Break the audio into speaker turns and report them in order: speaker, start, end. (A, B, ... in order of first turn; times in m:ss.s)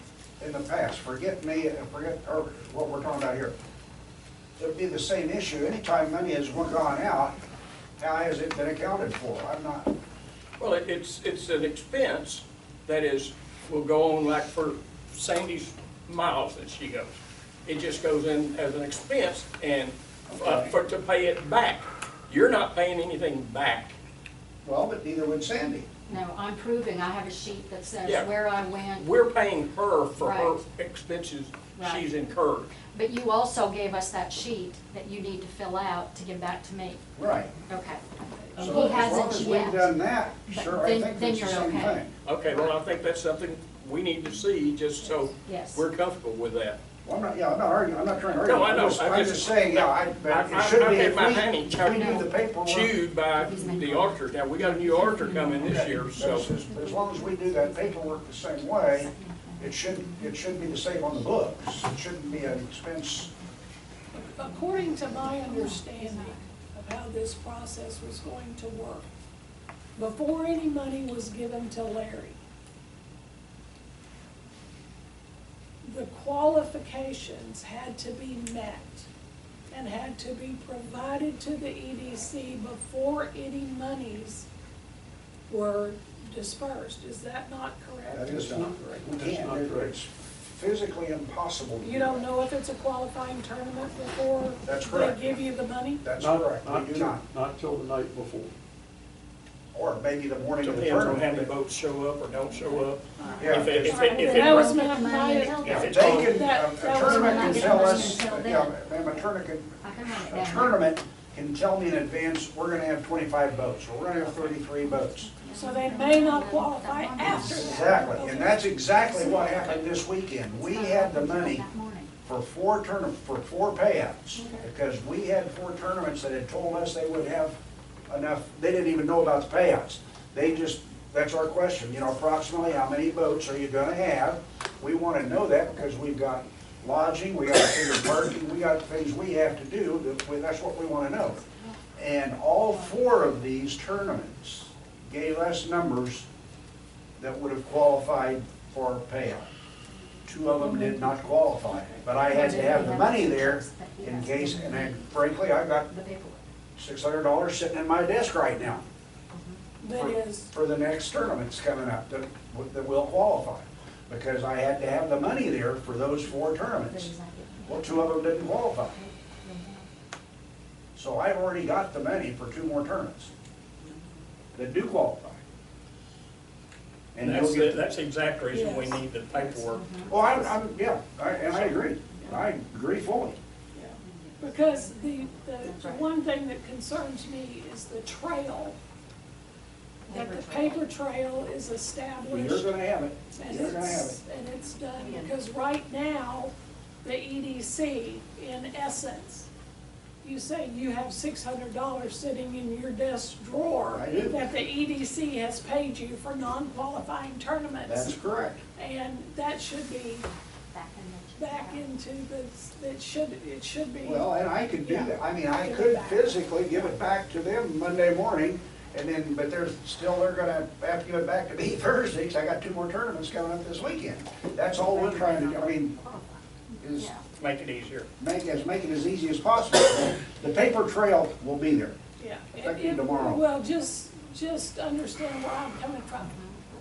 0:00.4-0:03.5 A
0:04.6-0:07.4 A
0:08.0-0:09.9 A
0:10.6-0:17.2 B
0:17.7-0:24.0 B
0:20.3-0:20.7 A
0:24.6-0:26.0 A
0:26.1-0:29.2 C
0:28.0-0:28.3 B
0:28.9-0:32.7 B
0:30.2-0:30.6 C
0:31.8-0:32.1 C
0:32.8-0:37.0 C
0:37.2-0:37.5 A
0:37.6-0:42.0 C
0:38.3-0:38.8 D
0:38.6-0:42.1 A
0:42.2-0:46.8 B
0:45.0-0:45.3 D
0:45.4-0:45.9 C
0:47.0-0:53.0 A
0:48.4-0:56.5 B
0:51.8-0:52.4 C
0:53.3-1:01.7 C
0:55.6-1:03.3 A
1:02.3-1:02.6 C
1:03.2-1:03.5 C
1:04.1-1:09.1 D
1:04.4-1:06.5 C
1:10.0-1:12.4 D
1:15.8-1:19.1 D
1:19.7-1:24.5 D
1:25.5-1:28.6 D
1:28.1-1:32.4 A
1:28.2-1:30.0 E
1:31.8-1:36.0 D
1:34.6-1:35.4 A
1:36.0-1:37.2 A
1:36.2-1:38.5 E
1:39.7-1:41.5 A
1:40.6-1:44.8 B
1:42.5-1:48.3 D
1:43.4-1:44.2 A
1:43.5-1:46.3 C
1:45.6-1:55.3 A
1:45.6-1:46.4 B
1:46.9-1:49.3 C
1:49.8-1:50.9 C
1:54.2-1:58.1 C
1:55.5-1:58.6 D
1:57.2-2:01.7 A
1:58.9-1:59.9 C
2:00.5-2:02.1 C
2:02.3-2:07.6 A
2:04.4-2:04.6 D
2:08.1-2:21.4 A
2:21.4-2:21.8 C
2:22.0-2:26.2 A
2:22.7-2:22.9 C
2:27.2-2:29.5 A
2:30.2-2:31.4 C
2:30.3-2:35.9 A
2:31.6-2:32.5 D
2:32.2-2:35.2 C
2:35.9-2:36.4 C
2:36.8-2:38.8 A
2:39.3-2:39.6 C
2:39.8-2:40.5 D
2:39.9-2:47.1 A
2:46.2-2:49.9 C
2:47.6-2:49.0 A
2:51.0-2:53.3 A
2:54.6-2:55.4 A
2:57.1-2:57.8 A
2:57.2-3:00.5 B
2:58.5-2:59.6 D
2:59.7-3:00.2 C
3:00.1-3:03.4 A
3:01.4-3:01.8 B
3:03.7-3:08.8 D
3:04.0-3:06.0 C
3:10.1-3:10.8 C
3:10.1-3:12.7 D
3:12.3-3:14.2 A
3:13.3-3:19.5 D
3:15.0-3:15.3 C
3:20.2-3:28.2 D
3:23.9-3:24.4 A
3:27.8-3:28.6 A
3:28.8-3:30.3 D
3:30.7-3:31.9 C
3:31.4-3:36.9 D
3:34.0-3:46.0 A
3:45.6-3:46.2 C
3:46.8-3:47.1 A
3:47.4-3:48.1 B
3:48.2-3:52.0 A
3:52.2-3:56.4 D
3:52.6-3:53.4 A
3:56.2-3:56.6 C